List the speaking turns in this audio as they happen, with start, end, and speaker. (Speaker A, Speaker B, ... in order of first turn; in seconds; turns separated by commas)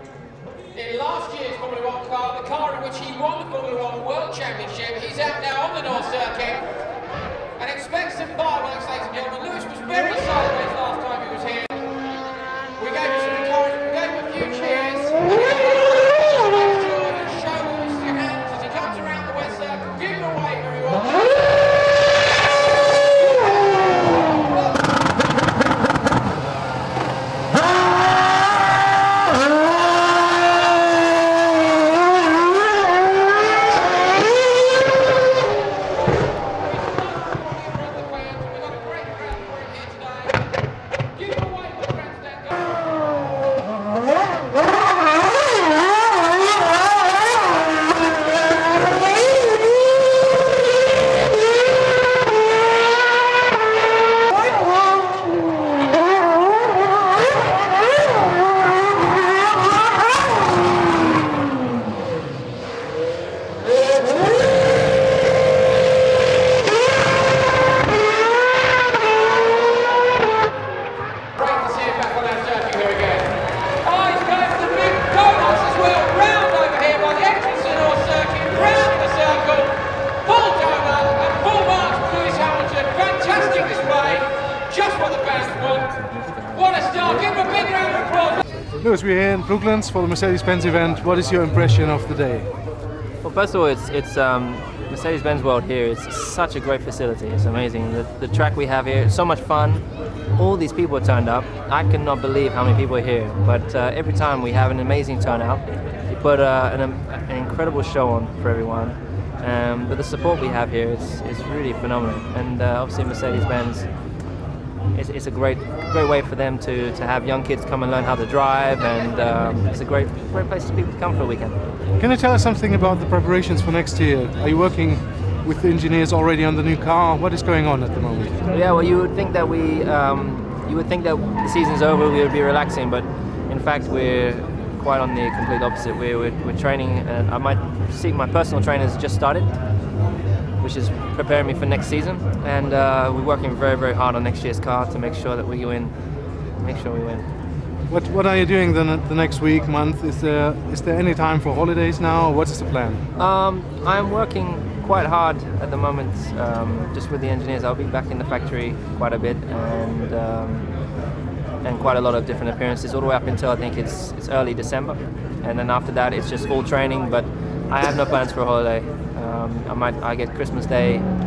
Speaker A: 0.7-6.7, Speaker A: 7.6-11.9, Speaker A: 12.8-21.3, Speaker A: 23.1-24.8, Speaker A: 36.5-40.5, Speaker A: 41.1-42.9, Speaker A: 71.3-88.4, Speaker B: 88.8-92.5, Speaker C: 93.2-99.8, Speaker C: 100.3-113.9, Speaker C: 114.9-121.6, Speaker B: 122.0-128.4, Speaker C: 128.5-139.5, Speaker C: 140.6-145.9, Speaker C: 146.6-147.3, Speaker B: 147.9-153.0, Speaker C: 153.2-160.7, Speaker C: 161.6-171.1